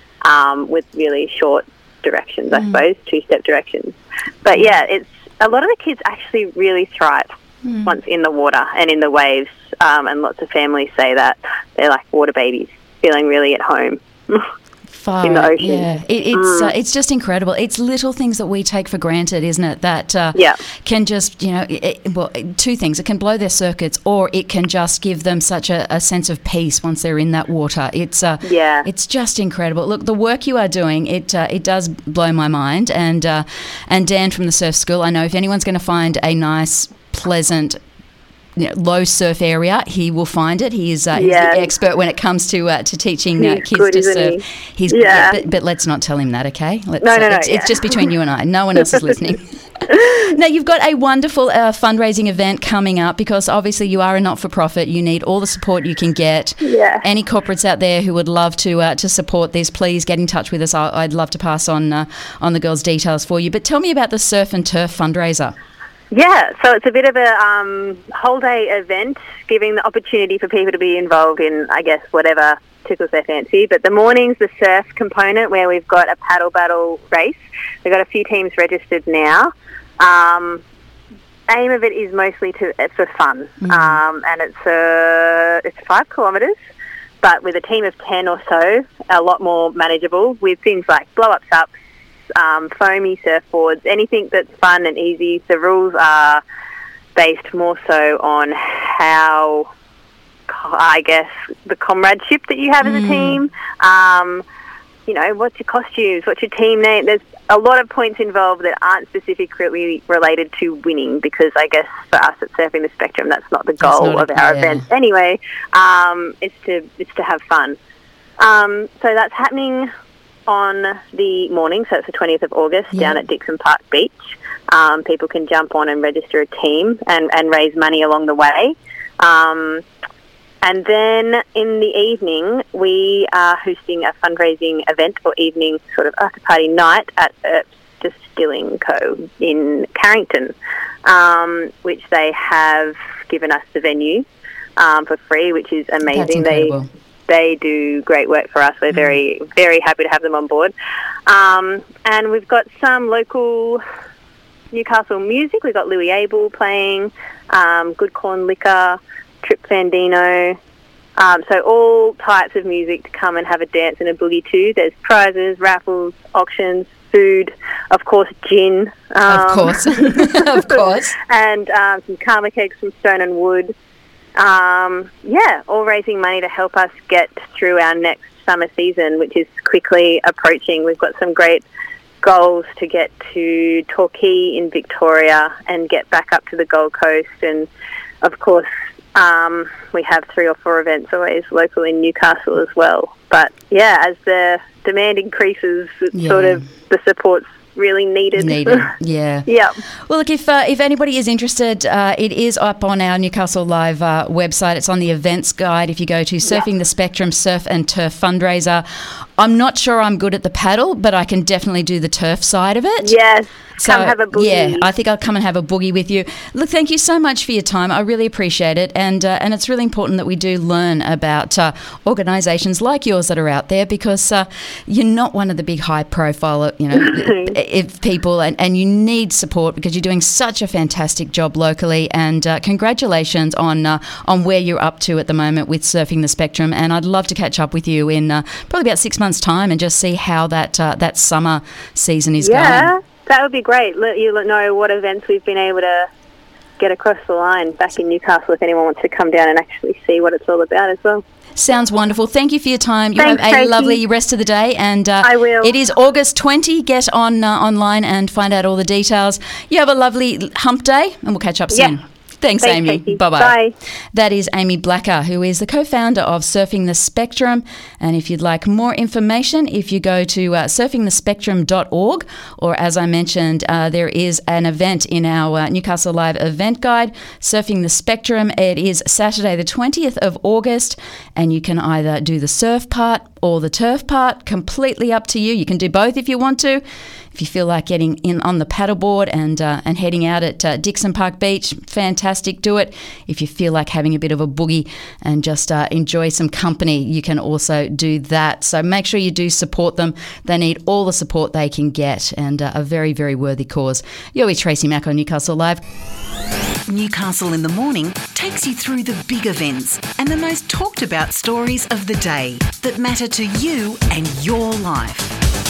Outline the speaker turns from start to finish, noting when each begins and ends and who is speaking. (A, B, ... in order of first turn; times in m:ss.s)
0:00.2-0:07.3 A
0:02.5-0:02.8 B
0:07.6-0:07.9 B
0:07.8-0:14.5 A
0:14.9-0:37.8 B
0:15.2-0:16.7 A
0:28.4-0:28.9 A
0:38.6-1:05.5 B
0:41.1-0:41.7 A
0:43.4-0:45.4 A
0:47.0-0:48.1 A
0:56.6-0:57.0 A
1:06.1-1:20.6 A
1:21.5-1:26.6 A
1:23.6-1:24.0 B
1:27.2-1:31.7 A
1:32.4-1:36.4 A
1:37.2-1:39.7 A
1:40.5-1:44.4 A
1:42.8-1:43.4 B
1:45.1-1:57.8 A
1:53.8-1:54.9 B
1:58.4-1:59.9 A
2:00.5-2:09.8 A
2:02.9-2:03.2 B
2:10.6-2:24.3 A
2:24.8-2:26.8 A
2:26.1-2:26.9 B
2:27.3-2:30.7 A
2:31.3-2:33.8 A
2:34.7-2:40.6 A
2:41.2-2:53.7 A
2:49.3-2:51.2 B
2:54.4-3:01.6 A
3:02.2-3:07.7 A
3:08.2-3:18.9 A
3:16.1-3:16.6 B
3:18.4-3:19.5 B
3:19.5-3:19.8 A
3:20.1-3:28.8 B
3:29.4-3:33.2 B
3:33.0-3:34.9 A
3:33.8-4:02.9 B
3:47.0-3:47.6 A
4:02.4-4:06.1 A
4:06.8-4:11.2 A
4:11.6-4:23.6 B
4:13.2-4:14.0 A
4:15.2-4:15.8 A
4:21.7-4:22.0 A
4:22.6-4:23.7 A
4:24.1-4:46.8 B
4:47.3-5:05.8 B
5:06.9-5:15.3 C